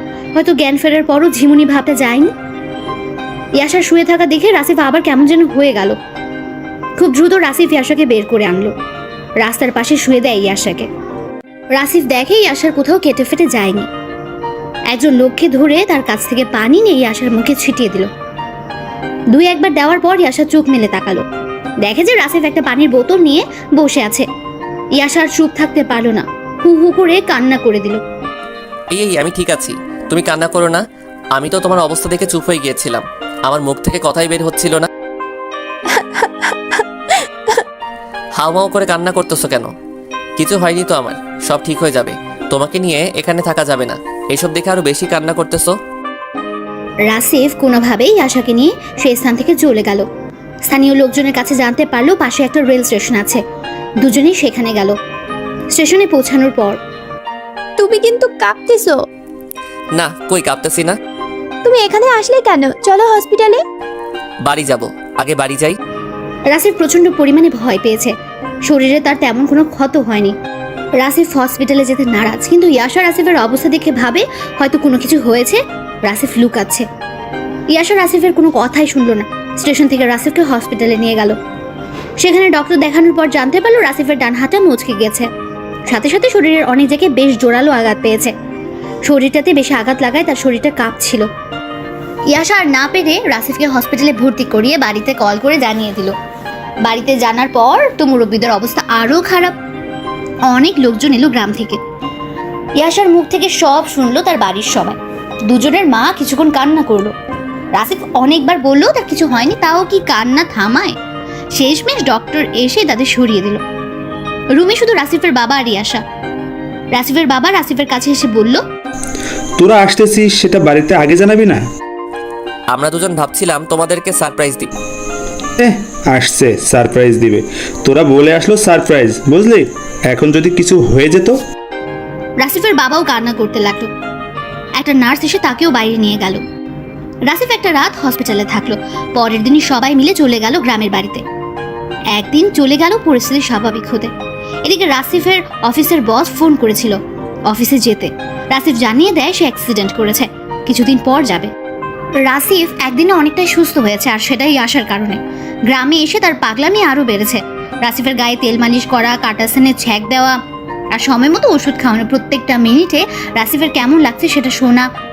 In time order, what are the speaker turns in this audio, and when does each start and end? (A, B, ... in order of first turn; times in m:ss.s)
0:00.4-0:02.3 A
0:03.6-0:06.0 A
0:07.0-0:08.7 A
0:09.4-0:10.9 A
0:11.8-0:13.9 A
0:14.9-0:18.1 A
0:19.3-0:21.2 A
0:21.8-0:24.3 A
0:25.0-0:28.0 A
0:28.9-0:30.8 B
0:31.4-0:34.9 B
0:38.4-0:39.7 B
0:40.4-0:45.7 B
0:47.1-0:50.1 A
0:50.7-0:53.4 A
0:54.0-0:55.0 A
0:55.7-0:56.8 A
0:57.8-0:59.0 C
1:00.0-1:01.0 B
1:01.6-1:03.6 C
1:04.4-1:05.8 B
1:06.5-1:08.1 A
1:08.7-1:10.4 A
1:11.0-1:16.9 A
1:17.7-1:21.4 A
1:22.2-1:25.3 A
1:25.9-1:28.3 A
1:29.1-1:31.3 A
1:32.3-1:36.2 A
1:36.8-1:39.6 A
1:40.5-1:41.8 A
1:42.8-1:47.1 A
1:47.7-1:51.0 A
1:51.6-1:53.6 A
1:54.6-1:56.0 A
1:56.9-1:58.6 A
1:59.6-2:01.6 D
2:02.7-2:04.7 B
2:05.6-2:11.4 D
2:12.4-2:13.9 A
2:14.8-2:16.4 A
2:17.3-2:21.2 A
2:22.1-2:24.1 A
2:24.6-2:27.0 A
2:27.5-2:31.5 A
2:32.2-2:40.4 A
2:40.9-2:44.9 A